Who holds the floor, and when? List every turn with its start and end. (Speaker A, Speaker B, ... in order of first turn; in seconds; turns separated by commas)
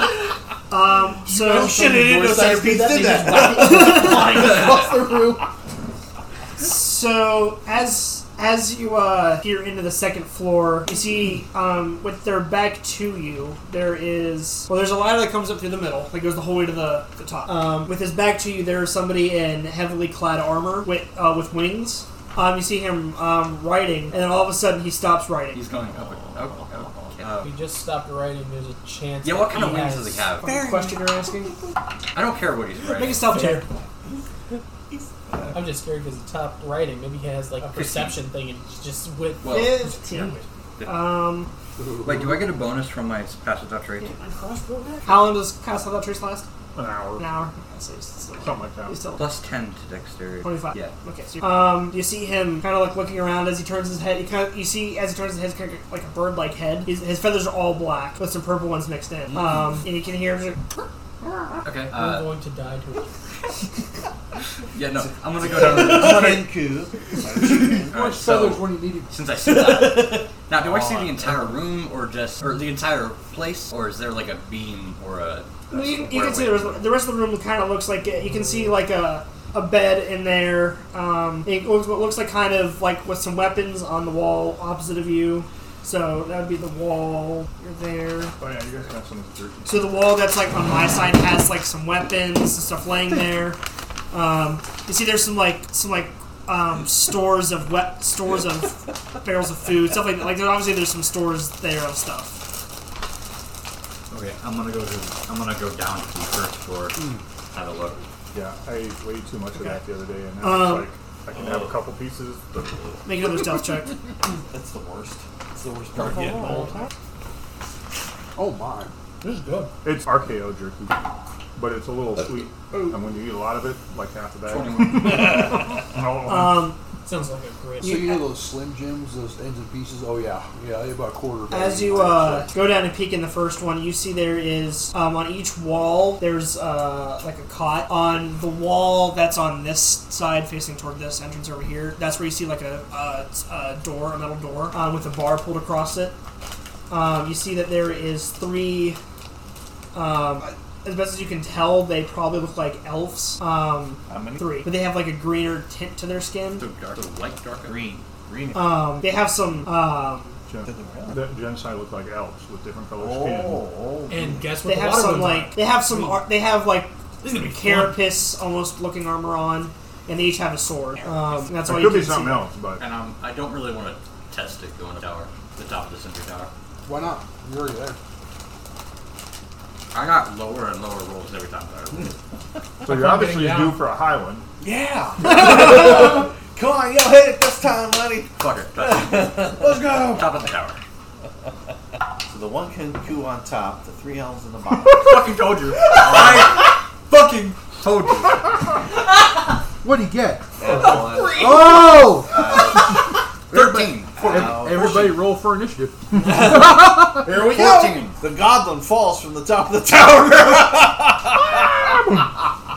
Speaker A: 0.7-1.8, Speaker B: 1.3-5.4, Speaker C: 1.4-4.8, Speaker A: 3.5-4.3, Speaker A: 6.6-25.6, Speaker D: 25.5-27.5, Speaker C: 26.0-27.5, Speaker B: 27.4-30.3, Speaker D: 29.2-30.5, Speaker A: 30.4-31.5, Speaker C: 30.4-31.3, Speaker D: 32.1-33.5, Speaker A: 32.9-33.7, Speaker B: 33.3-33.6, Speaker C: 34.9-35.7, Speaker B: 35.5-40.5, Speaker D: 37.7-38.2, Speaker D: 39.4-39.8, Speaker A: 39.5-40.3, Speaker A: 40.8-41.5, Speaker E: 41.8-42.5, Speaker D: 42.0-44.1, Speaker B: 44.0-45.3, Speaker A: 45.0-46.5, Speaker F: 46.7-47.3, Speaker A: 47.2-49.2, Speaker F: 48.4-49.0, Speaker D: 49.2-50.9, Speaker A: 50.4-60.6, Speaker D: 61.6-62.3, Speaker B: 61.9-63.1, Speaker D: 64.7-66.2, Speaker C: 65.0-67.9, Speaker F: 65.5-66.2, Speaker B: 65.7-66.4, Speaker E: 67.5-69.1, Speaker D: 67.9-76.9, Speaker B: 69.5-70.2, Speaker C: 70.6-71.3, Speaker A: 75.7-88.3, Speaker F: 88.4-90.0, Speaker A: 89.7-93.6, Speaker A: 94.1-102.4, Speaker D: 104.1-107.0, Speaker D: 107.5-108.0, Speaker F: 108.3-112.9, Speaker A: 110.4-110.9, Speaker A: 113.0-113.9, Speaker C: 114.3-116.7, Speaker E: 118.3-118.9, Speaker D: 119.2-119.6, Speaker F: 119.8-121.0, Speaker F: 121.6-126.7, Speaker D: 124.5-125.6, Speaker A: 126.2-126.8, Speaker B: 127.0-128.2, Speaker E: 127.8-132.5, Speaker A: 127.8-128.2, Speaker A: 131.5-146.2, Speaker A: 146.9-149.0, Speaker A: 149.9-156.7, Speaker C: 154.1-154.5, Speaker D: 156.6-157.8, Speaker C: 157.6-158.7, Speaker A: 158.5-160.4, Speaker F: 160.5-163.7, Speaker C: 160.7-161.2, Speaker C: 162.9-164.5, Speaker B: 164.1-166.2, Speaker A: 164.6-172.5, Speaker F: 171.6-172.8, Speaker D: 172.8-176.5, Speaker E: 176.8-178.0, Speaker D: 179.9-182.2, Speaker F: 182.8-184.4, Speaker B: 182.9-183.8, Speaker C: 184.6-190.5, Speaker D: 188.4-190.8, Speaker C: 192.3-195.2, Speaker D: 194.9-198.5, Speaker C: 195.8-196.7, Speaker E: 199.8-203.0, Speaker C: 200.6-201.7, Speaker B: 200.7-201.3, Speaker C: 202.2-203.0, Speaker D: 203.5-204.9, Speaker E: 203.5-207.2, Speaker C: 204.2-205.2, Speaker C: 206.2-211.9, Speaker D: 207.2-208.2